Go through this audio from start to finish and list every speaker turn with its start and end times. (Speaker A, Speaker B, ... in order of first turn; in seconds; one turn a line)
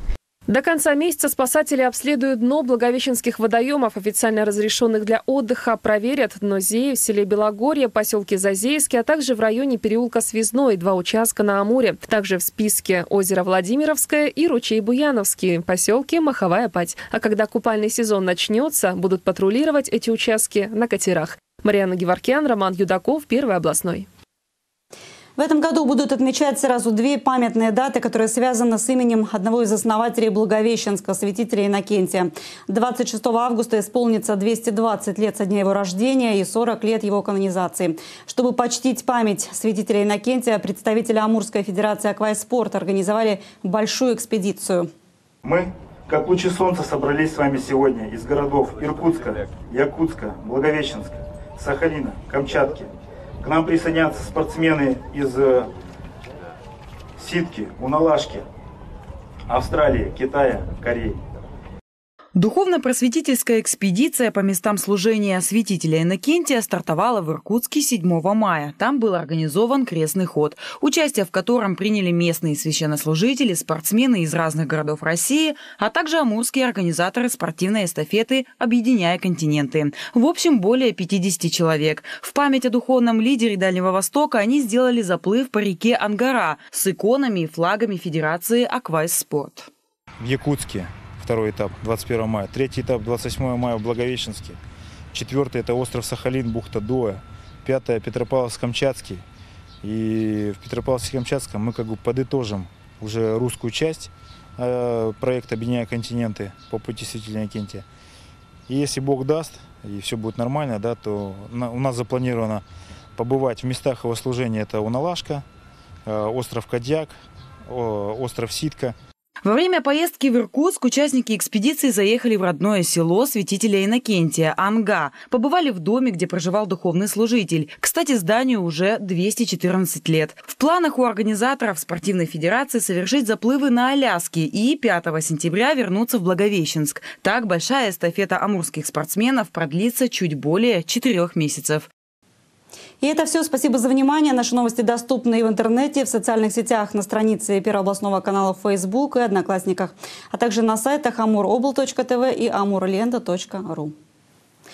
Speaker A: 0.5-24.1
Speaker B: 25.4-44.9
Speaker C: 45.4-52.9
Speaker C: 53.4-55.6
Speaker C: 57.2-58.4
Speaker C: 59.5-61.1
Speaker D: 62.3-89.7
Speaker E: 90.2-94.6
Speaker E: 95.1-99.2
Speaker E: 99.8-107.8
Speaker E: 108.7-112.6
Speaker E: 113.2-115.4
Speaker E: 116.0-117.1
Speaker E: 117.7-119.0
Speaker D: 119.4-141.9
Speaker B: 143.0-153.9